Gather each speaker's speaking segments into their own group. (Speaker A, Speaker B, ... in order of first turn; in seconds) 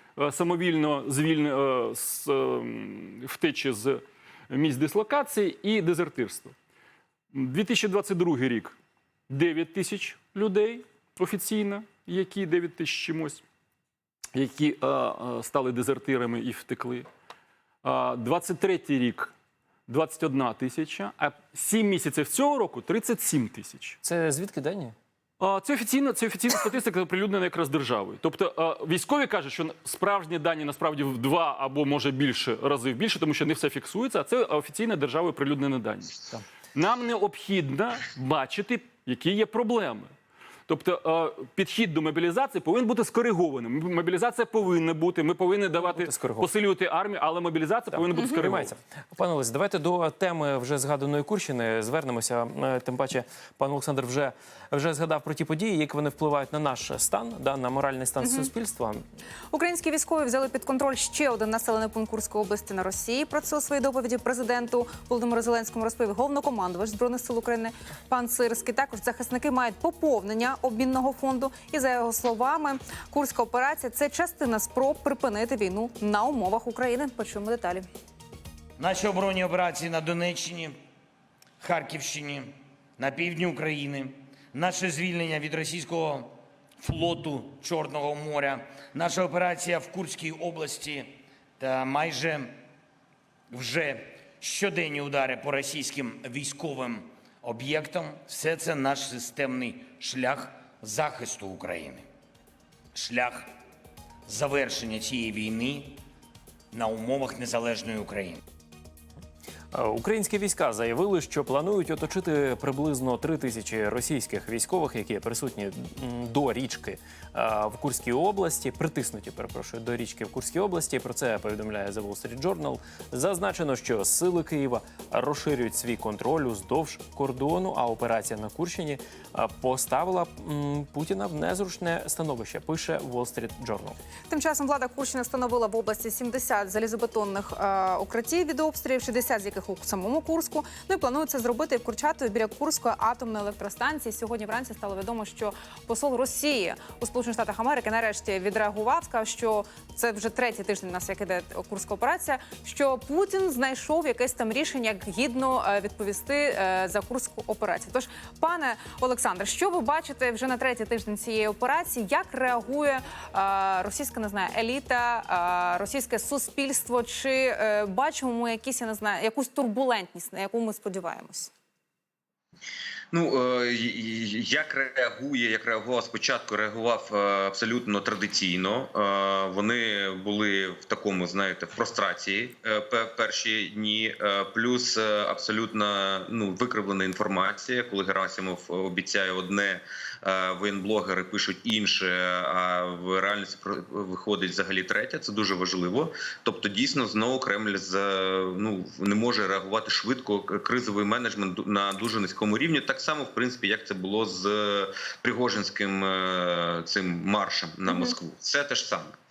Speaker A: 0.2-6.5, 7.3-8.8, 9.3-13.4, 14.3-17.1, 17.8-19.3, 19.9-24.0, 25.4-36.2, 36.7-40.1, 40.7-48.7
Speaker B: 24.0-24.9, 45.9-46.5, 47.9-59.0, 109.7-134.0
Speaker C: 58.2-58.5, 59.5-77.8, 134.3-171.5, 207.9-208.1
Speaker D: 78.8-80.8, 81.6-92.5, 93.5-102.0, 102.9-103.5, 104.3-106.0, 106.7-108.4
Speaker E: 173.1-209.2